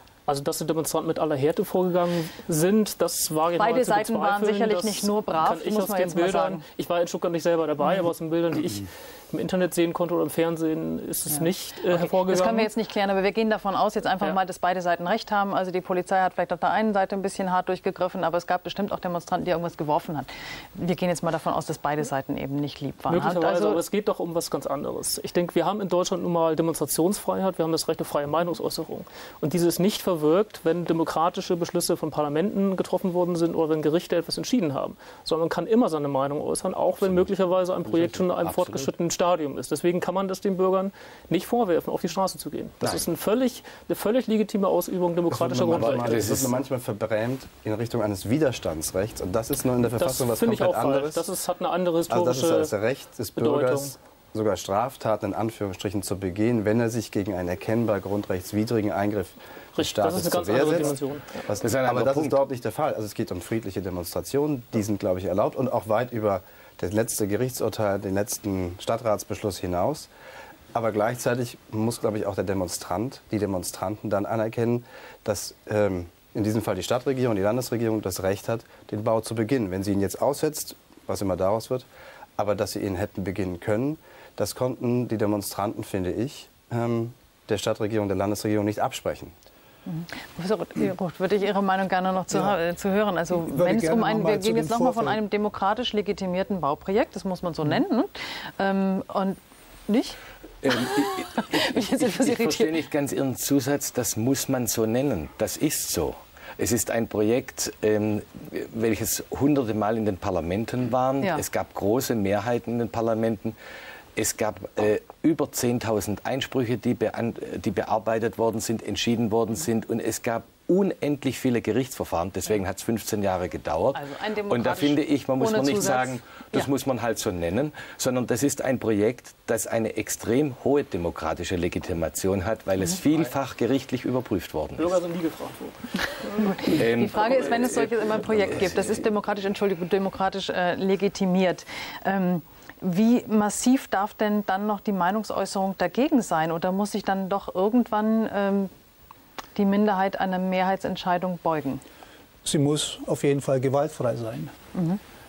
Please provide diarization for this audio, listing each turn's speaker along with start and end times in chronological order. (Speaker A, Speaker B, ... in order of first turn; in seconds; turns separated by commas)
Speaker A: 0.3-12.7, Speaker B: 3.5-6.6, Speaker B: 11.3-23.8, Speaker A: 23.1-46.4, Speaker C: 37.0-37.3, Speaker C: 37.8-38.9, Speaker D: 45.3-51.2, Speaker C: 45.8-46.4, Speaker A: 49.9-52.7, Speaker D: 52.1-60.9, Speaker A: 53.4-54.0, Speaker A: 59.7-61.4, Speaker D: 61.5-70.1, Speaker C: 61.6-62.4, Speaker D: 70.7-81.8, Speaker D: 82.4-89.3, Speaker B: 89.8-99.4, Speaker E: 93.3-95.2, Speaker B: 99.9-100.2, Speaker C: 100.6-113.5, Speaker B: 100.7-102.7, Speaker C: 114.2-134.9, Speaker B: 123.9-126.7, Speaker A: 134.8-136.6, Speaker B: 136.2-148.7, Speaker C: 136.8-137.3, Speaker B: 149.5-151.8, Speaker E: 152.4-154.5, Speaker B: 154.7-155.0